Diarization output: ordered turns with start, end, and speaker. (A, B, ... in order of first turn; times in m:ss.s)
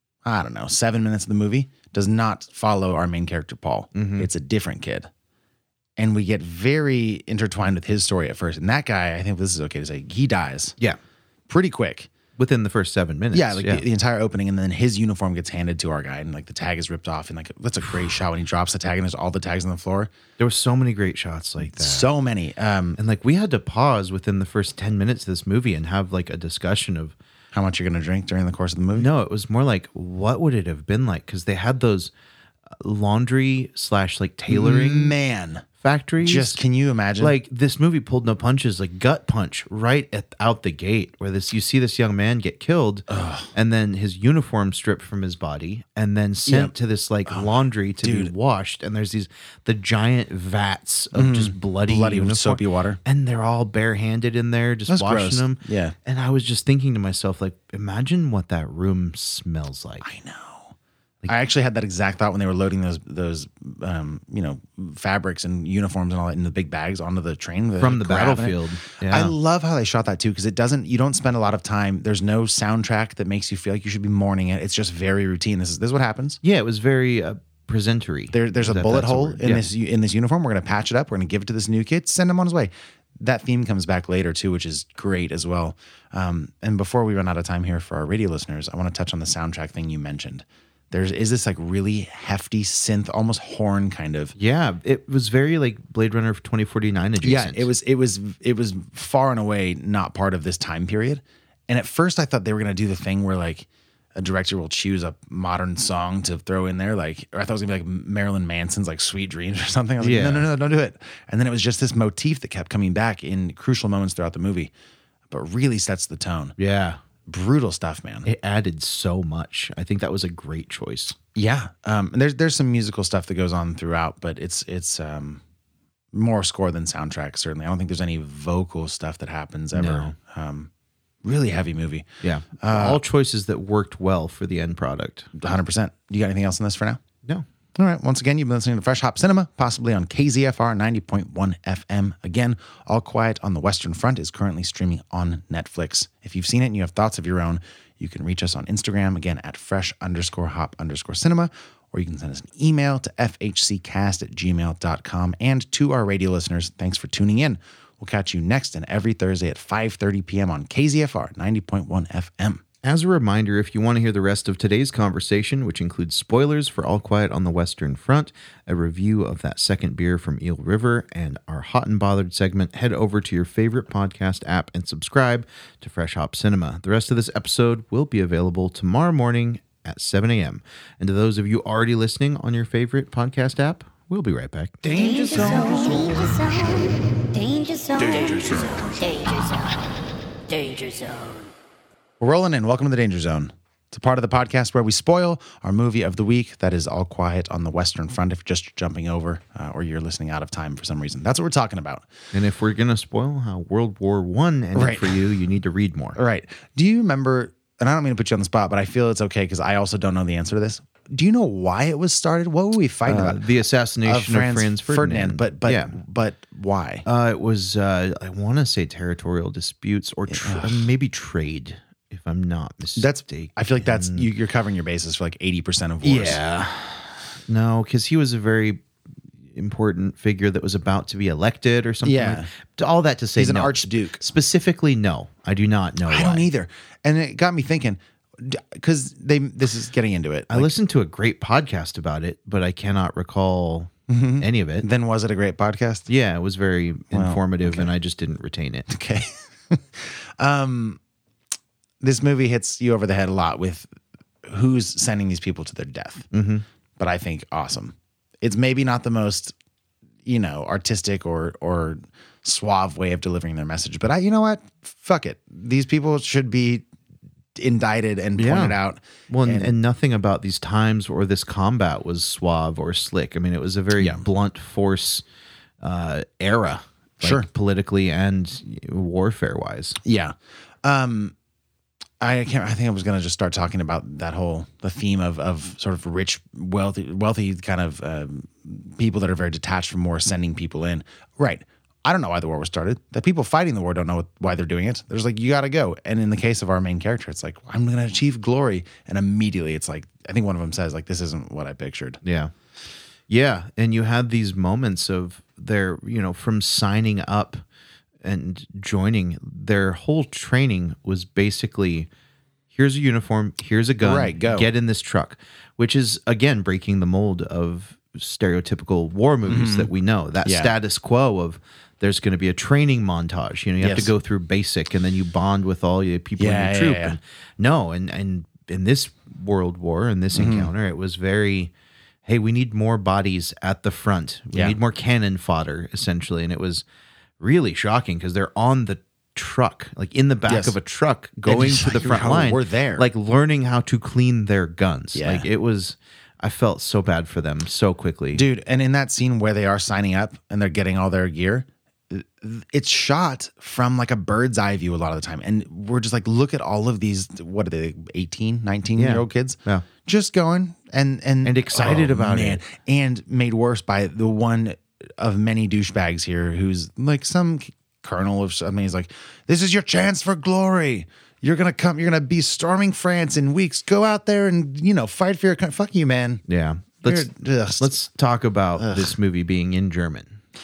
0:00.2-0:05.1 A
0:03.9-0:04.3 B
0:06.0-0:10.7 A
0:11.5-0:12.1 A
0:12.4-0:13.8 B
0:13.3-0:20.1 A
0:20.4-0:22.1 B
0:21.6-0:23.0 A
0:23.0-0:27.1 B
0:27.5-0:29.1 A
0:29.0-0:32.1 B
0:32.7-0:35.1 B
0:34.5-0:35.6 A
0:35.8-0:36.6 B
0:36.2-0:37.4 A
0:37.2-1:00.0 B
0:43.1-0:43.5 A
0:46.5-0:46.7 A
0:47.3-0:48.3 A
0:51.1-0:53.0 A
0:54.9-0:55.9 A
1:00.0-1:00.7 A
1:01.3-1:16.4 A
1:07.8-1:09.3 B
1:16.4-1:19.6 B
1:18.3-1:34.3 A
1:34.4-1:37.7 B
1:37.2-1:54.7 A
1:50.0-1:50.5 B
1:55.3-1:56.6 A
1:56.6-1:57.0 B
1:57.3-1:58.3 A
1:58.2-2:01.1 B
2:01.3-2:05.4 A
2:06.1-2:10.7 A
2:09.7-2:10.1 B
2:11.2-2:12.1 A
2:12.2-2:15.3 B
2:12.6-2:13.0 A
2:15.3-2:17.0 A
2:17.8-2:42.6 A
2:42.8-3:04.8 B
3:04.8-3:06.8 A
3:04.9-3:09.8 C
3:08.1-3:08.5 A
3:10.5-3:11.5 C
3:12.2-3:22.1 A
3:22.3-3:26.2 B
3:24.7-3:25.3 A
3:26.2-3:33.4 A
3:33.0-3:36.0 B
3:34.0-3:37.0 A
3:37.0-3:44.3 B
3:40.3-3:40.9 A
3:43.0-3:46.4 A
3:46.0-3:48.8 B
3:49.5-3:56.4 B
3:52.0-3:52.5 A
3:53.4-3:54.2 A
3:56.1-4:00.7 A
4:00.5-4:04.8 B
4:04.1-4:06.1 A
4:06.1-4:08.9 B
4:07.1-4:07.9 A
4:08.9-4:11.0 A
4:12.0-4:13.9 A
4:14.4-4:16.3 A
4:16.3-4:16.6 B
4:17.0-4:19.5 A
4:20.2-4:26.8 A
4:27.6-4:29.7 A
4:28.4-4:28.8 B
4:29.3-4:35.2 B
4:34.0-4:34.2 A
4:35.8-4:40.0 B
4:37.2-4:37.5 A
4:40.0-4:41.3 A
4:42.2-5:02.2 A
5:02.2-5:02.5 B
5:03.3-5:07.6 B
5:08.2-5:12.1 B
5:12.7-5:31.7 B
5:14.0-5:14.7 A
5:19.5-5:19.9 A
5:20.4-5:20.7 A
5:23.8-5:24.1 A
5:26.4-5:27.2 A
5:30.3-5:30.7 A
5:32.2-5:36.8 B
5:37.4-5:48.4 B
5:40.5-5:40.8 A
5:41.4-5:43.0 A
5:45.1-5:45.5 A
5:48.3-6:16.4 A
5:59.0-5:59.8 B
6:01.4-6:02.6 B
6:16.5-6:20.4 B
6:17.0-6:17.9 A
6:18.8-6:19.1 A